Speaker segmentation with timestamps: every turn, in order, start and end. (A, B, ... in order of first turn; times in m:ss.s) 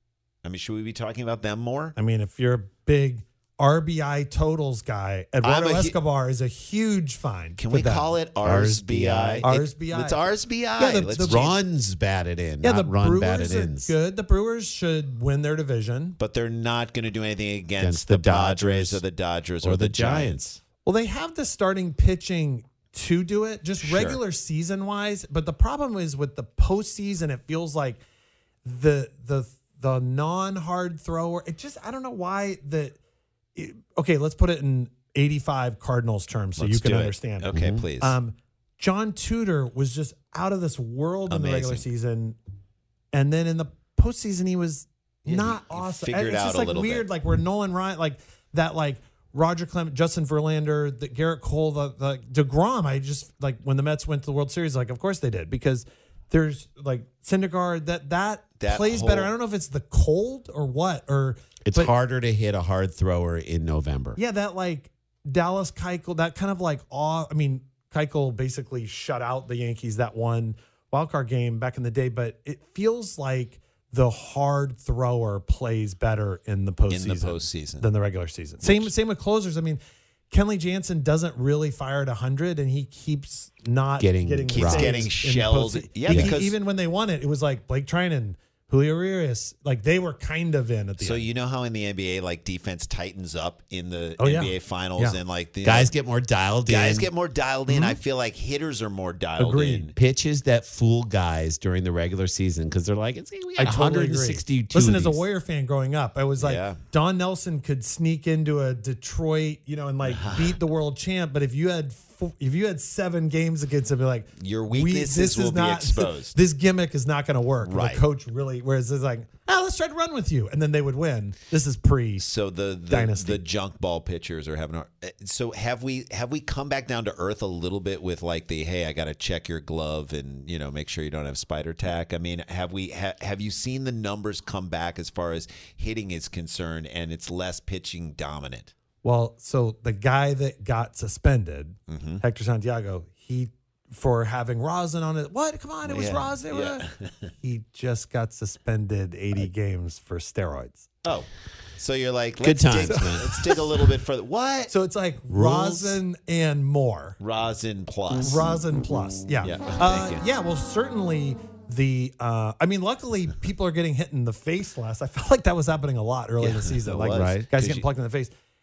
0:00.4-0:01.9 A
0:02.0-0:08.1 B
0:05.4-0:06.0 A
0:07.6-0:11.6 A
0:08.4-0:09.4 C
0:09.4-0:10.2 B
0:10.8-0:11.5 B
0:11.3-0:13.9 C
0:12.6-0:16.2 B
0:16.2-0:20.6 A
0:17.8-0:19.0 C
0:19.6-0:20.4 C
0:20.8-0:28.0 B
0:23.8-0:24.2 A
0:28.6-0:33.0 B
0:33.5-0:42.4 B
0:36.6-0:38.2 A
0:37.5-0:37.8 C
0:41.3-0:41.8 A
0:43.1-1:01.9 B
0:45.2-0:47.1 A
0:58.6-0:59.3 A
1:01.6-1:04.2 C
1:04.2-1:31.2 B
1:16.9-1:17.9 A
1:18.6-1:18.9 A
1:24.0-1:25.0 C
1:24.5-1:26.6 A
1:26.1-1:26.3 C
1:31.0-1:35.9 A
1:34.2-1:35.2 B
1:35.6-1:37.1 C
1:36.6-1:39.9 A
1:37.7-1:38.0 B
1:39.4-1:39.9 B
1:40.0-1:45.2 C
1:43.6-2:02.2 B
1:46.4-1:46.8 A
1:50.0-1:50.6 A
1:54.4-1:56.4 A
1:57.6-1:58.0 A
2:02.2-2:18.7 A
2:02.9-2:03.4 B
2:19.0-2:26.8 B
2:21.9-2:22.2 A
2:25.8-2:27.3 A
2:27.4-2:30.9 B
2:31.8-2:34.7 A
2:32.4-2:33.3 C
2:33.0-2:33.5 B
2:34.7-2:37.2 B
2:35.3-2:36.0 C
2:37.2-2:38.5 A
2:38.1-2:48.3 B
2:39.4-2:40.2 A
2:46.4-2:47.8 A
2:47.1-2:47.4 C